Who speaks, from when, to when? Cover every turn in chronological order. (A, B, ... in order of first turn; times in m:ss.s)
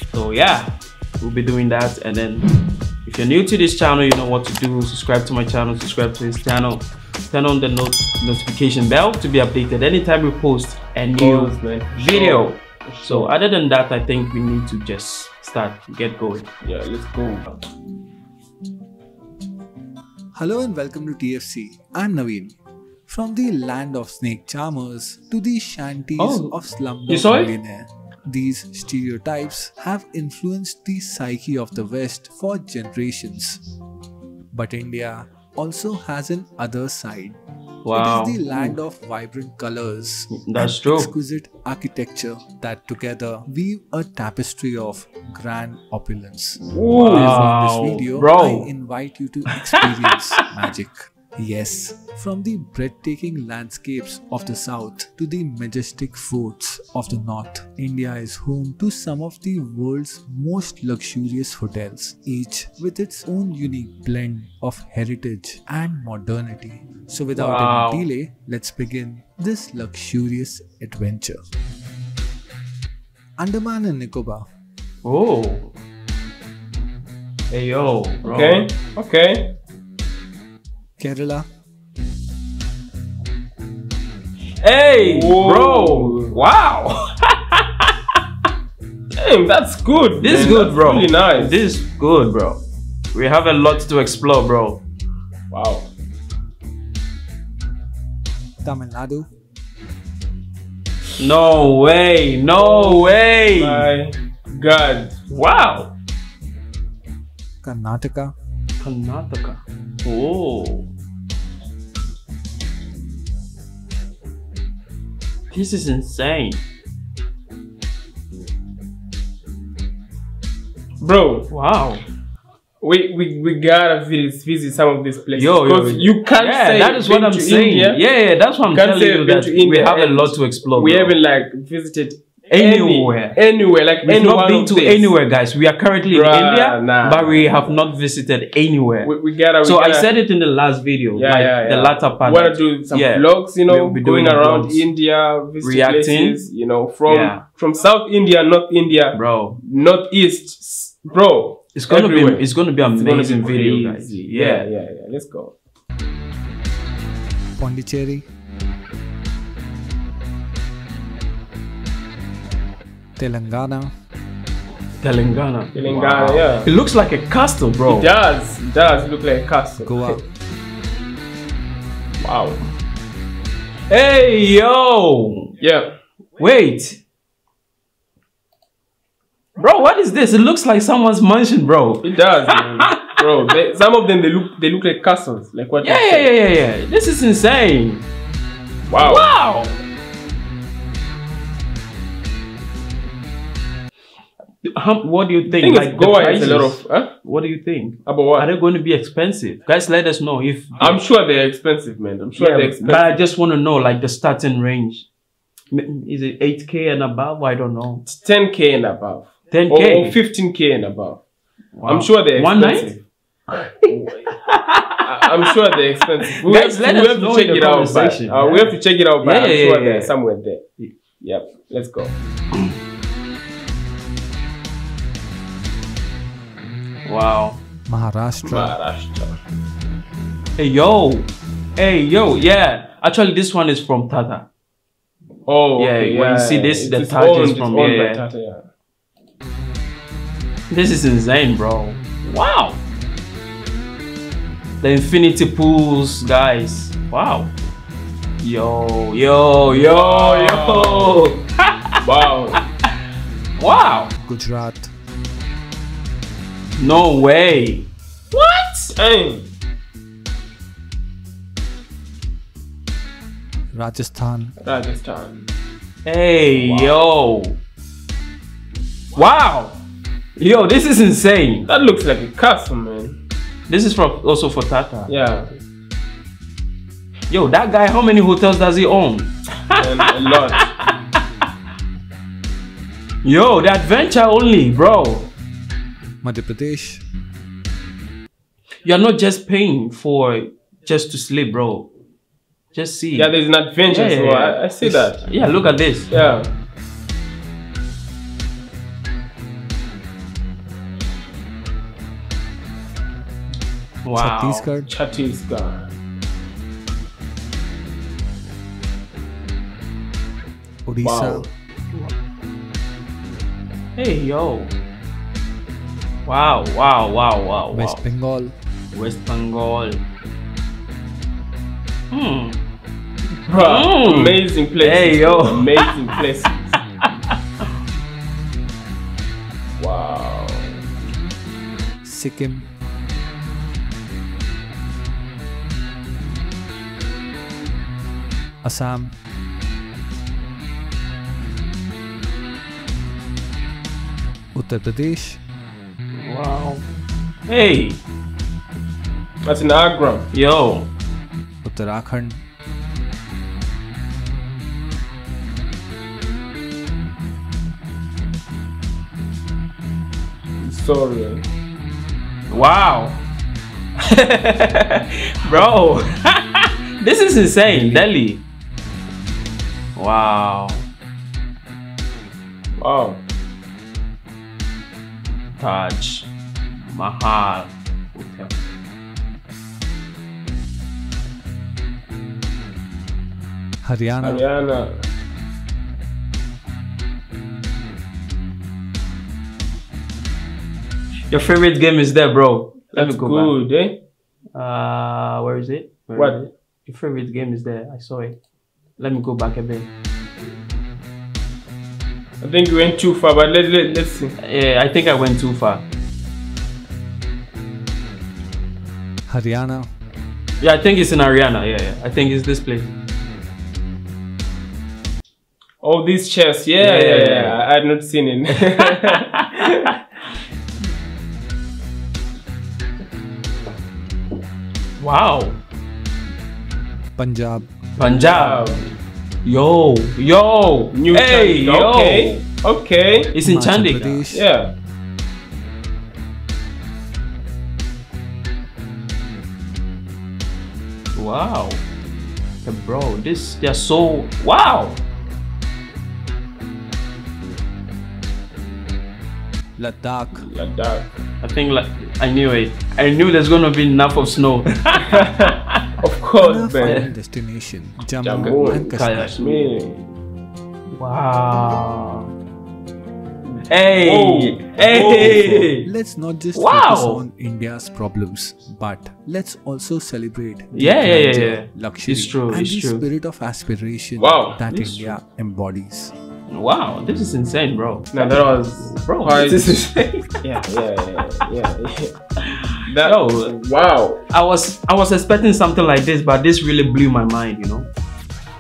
0:00.1-0:02.5 A
0:03.0-0:16.5 A
0:11.2-0:13.4 B
0:16.6-0:17.6 B
0:20.3-0:33.6 C
0:26.2-0:26.5 A
0:27.1-0:27.5 A
0:34.5-0:37.4 C
0:37.8-0:38.8 A
0:37.9-1:11.4 C
0:40.3-0:41.1 A
0:46.6-0:47.5 B
0:47.0-0:48.7 A
1:07.4-1:08.0 A
1:13.4-1:14.4 C
1:15.0-1:15.7 A
1:17.5-1:18.7 A
1:18.2-1:19.5 B
1:21.0-1:21.5 C
1:24.6-1:27.9 A
1:25.0-1:26.4 B
1:29.2-1:31.6 B
1:30.2-1:32.6 A
1:33.1-1:34.8 A
1:35.5-1:35.9 B
1:38.6-1:39.3 C
1:41.2-1:43.9 A
1:42.6-1:45.2 B
1:45.3-1:45.9 A
1:47.6-1:48.3 C
1:48.8-1:50.9 A
1:55.5-1:56.6 A
2:01.0-2:01.5 B
2:01.5-2:02.0 A
2:02.8-2:08.0 B
2:05.4-2:11.2 A
2:08.7-2:15.1 B
2:12.5-2:13.4 A
2:14.0-2:24.8 A
2:16.1-2:17.8 B
2:19.0-2:20.1 B
2:21.2-2:35.5 B
2:25.6-2:26.4 A
2:27.1-2:27.4 A
2:29.1-2:29.6 A
2:31.8-2:34.7 A
2:37.6-2:38.3 C
2:43.2-2:43.9 C
2:45.0-2:48.1 A
2:45.7-2:46.7 B
2:47.9-2:50.2 B
2:49.8-2:50.2 C
2:52.2-2:52.6 B
2:53.9-2:55.5 A
2:55.6-2:55.9 B
2:56.4-2:57.0 A
2:59.6-3:03.1 A
3:02.0-3:06.3 B
3:05.8-3:08.1 A
3:08.9-3:09.3 B
3:09.0-3:09.8 A
3:14.6-3:21.0 A
3:15.5-3:17.2 B
3:18.1-3:18.5 B
3:20.8-3:23.2 B
3:22.4-3:25.1 A
3:25.7-3:28.0 A
3:28.0-3:31.2 B
3:29.5-3:30.2 A
3:31.8-3:32.9 A
3:31.8-3:33.0 B
3:33.9-3:34.3 B
3:34.3-3:35.0 A
3:35.0-3:40.6 B
3:36.4-3:40.1 A
3:41.2-3:42.1 B
3:47.1-3:47.6 A
3:47.9-3:48.7 C
3:48.4-3:49.4 B
3:50.6-3:54.5 A
3:55.5-3:58.7 B
3:55.8-3:58.2 A
4:00.7-4:02.8 A
4:04.8-4:07.5 A
4:08.4-4:12.0 A
4:09.7-4:11.2 B
4:12.0-4:12.6 B
4:13.6-4:14.1 A
4:14.2-4:14.9 C
4:16.8-4:18.9 A
4:18.9-4:19.5 B
4:23.7-4:24.6 C
4:24.6-4:25.5 B
4:26.0-4:27.6 A
4:26.6-4:27.0 B
4:29.2-4:29.8 A
4:30.4-4:31.7 A
4:31.7-4:33.2 B
4:33.7-4:35.1 A
4:35.1-4:35.5 B
4:37.3-4:40.7 A
4:39.8-4:40.7 B
4:43.2-4:45.3 A
4:46.2-4:47.0 C
4:48.8-4:51.9 A
4:52.7-4:56.1 A
4:53.2-4:55.2 B
4:56.1-4:56.5 B
5:04.0-5:04.7 A
5:04.2-5:04.9 C
5:04.8-5:05.9 B
5:10.9-5:11.5 C
5:11.0-5:11.5 B
5:14.0-5:14.7 A
5:16.2-5:18.0 A
5:17.7-5:18.5 C
5:18.9-5:20.0 A
5:22.1-5:22.6 A
5:23.5-5:26.8 B
5:23.6-5:25.9 A
5:29.8-5:30.8 B
5:32.0-5:32.7 C
5:38.6-5:39.1 C
5:44.6-5:45.4 C
5:46.2-5:46.8 A
5:47.5-5:48.0 A
5:49.5-5:50.3 B
5:50.3-5:50.9 A
5:51.6-5:52.4 C
6:00.6-6:01.4 B
6:02.5-6:03.2 A
6:04.1-6:08.4 A
6:07.6-6:08.1 C
6:10.0-6:10.8 A
6:12.8-6:13.2 B
6:15.6-6:16.3 A
6:16.9-6:18.5 A
6:23.8-6:24.4 C
6:24.2-6:25.0 B
6:31.3-6:33.5 A
6:32.9-6:34.0 B
6:34.6-6:38.4 A
6:39.0-6:39.9 A
6:42.4-6:44.4 B
6:44.4-6:45.8 A
6:49.3-6:49.9 C
6:50.6-6:53.0 A
6:55.8-6:59.9 B
6:56.8-6:57.6 A
6:58.6-7:00.0 A
7:05.0-7:05.6 A
7:07.2-7:07.7 C
7:08.0-7:08.8 A
7:08.1-7:08.9 B
7:09.4-7:12.4 A
7:10.9-7:13.3 B
7:13.3-7:14.3 A
7:13.4-7:14.5 C
7:14.3-7:14.7 B
7:21.2-7:21.8 A
7:22.6-7:25.0 A
7:29.8-7:30.5 C
7:30.4-7:31.1 B
7:31.4-7:35.8 A
7:35.1-7:35.5 B
7:36.0-7:37.0 B
7:36.4-7:39.4 C
7:38.2-7:40.0 B
7:38.6-7:39.7 A
7:40.9-7:42.3 A
7:43.7-7:45.9 A
7:44.0-7:45.4 B
7:44.9-7:56.1 C
7:46.5-7:47.2 A
7:50.7-7:53.0 A
7:54.2-7:54.6 B
7:54.7-7:55.2 A
7:56.5-8:00.4 A
7:58.1-7:59.7 B
8:00.4-8:02.2 B
8:02.4-8:03.5 A
8:02.8-8:04.2 B
8:04.3-8:07.9 A